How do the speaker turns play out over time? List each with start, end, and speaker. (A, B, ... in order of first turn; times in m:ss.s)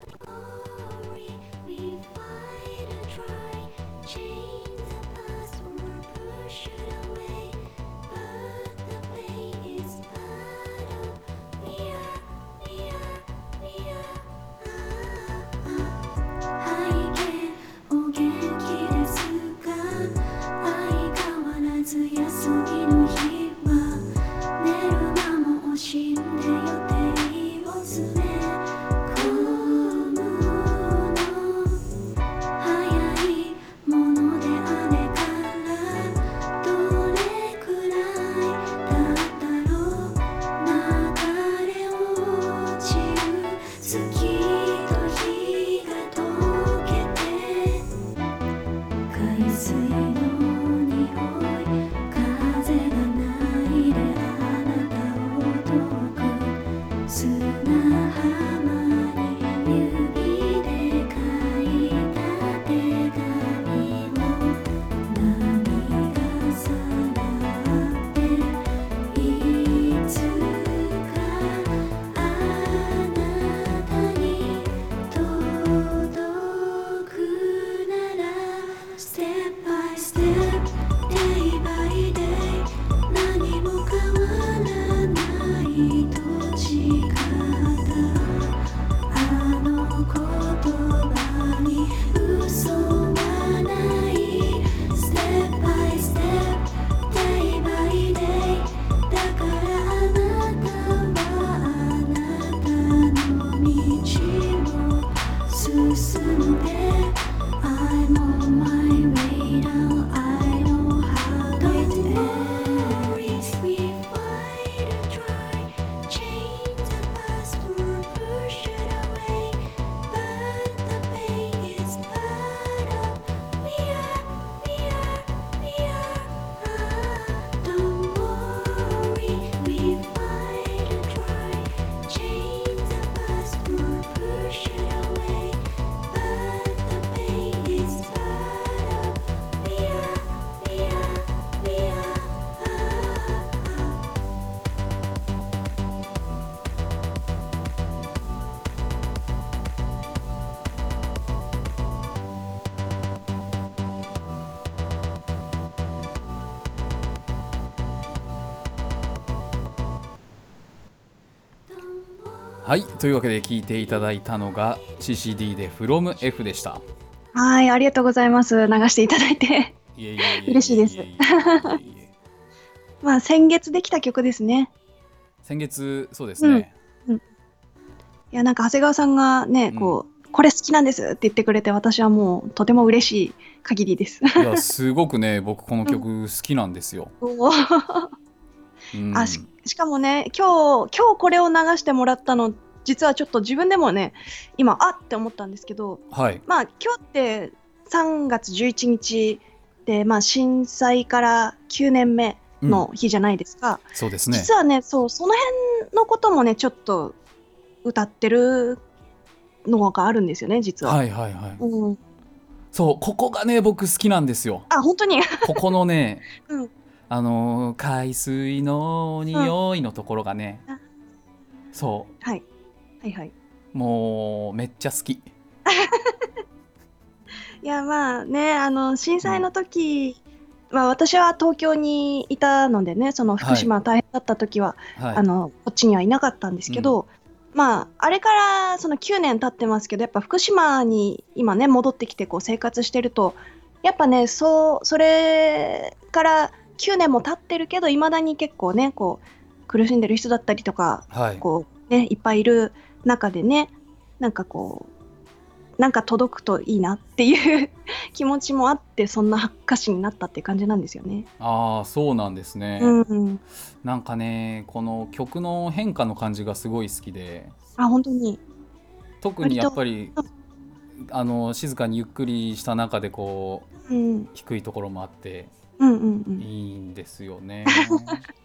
0:00.2-0:15.9 A
0:16.6-0:24.1 A
0:24.6-0:31.6 A
0:32.6-0:47.8 A
0:49.1-1:28.6 A
1:29.1-2:23.9 A
1:51.6-1:52.3 B
2:42.0-2:42.6 A
2:42.6-2:46.8 C
2:47.3-2:51.8 B
2:50.0-2:52.1 C
2:53.0-2:54.7 B
2:55.4-2:56.7 C
2:56.4-2:57.2 B
2:58.3-3:04.4 B
2:59.7-3:00.0 C
3:04.4-3:07.1 C
3:07.2-3:08.1 B
3:08.9-3:09.5 C
3:09.1-3:27.2 B
3:16.1-3:16.4 C
3:24.0-3:24.5 C
3:27.8-3:28.8 B
3:29.7-3:31.0 B
3:30.8-3:31.6 C
3:31.6-3:32.0 B
3:32.7-3:34.7 C
3:34.7-3:35.6 B
3:35.4-3:36.3 C
3:36.4-3:36.7 B
3:37.1-3:40.6 C
3:41.7-3:42.1 C
3:43.0-3:43.3 B
3:43.7-3:45.3 C
3:45.7-3:46.3 B
3:47.6-4:14.9 B
3:53.4-3:53.7 C
3:55.0-3:55.2 C
3:56.7-3:57.0 C
4:11.1-4:11.4 C
4:15.8-4:21.3 B
4:21.4-4:23.0 C
4:22.8-4:23.4 B
4:23.8-4:27.6 C
4:27.8-4:28.4 B
4:29.2-4:30.2 C
4:29.4-4:30.2 B
4:31.0-4:33.7 C
4:33.9-4:34.3 B
4:34.3-4:35.5 C
4:35.8-4:36.4 B
4:36.4-4:38.2 C
4:37.7-4:38.2 B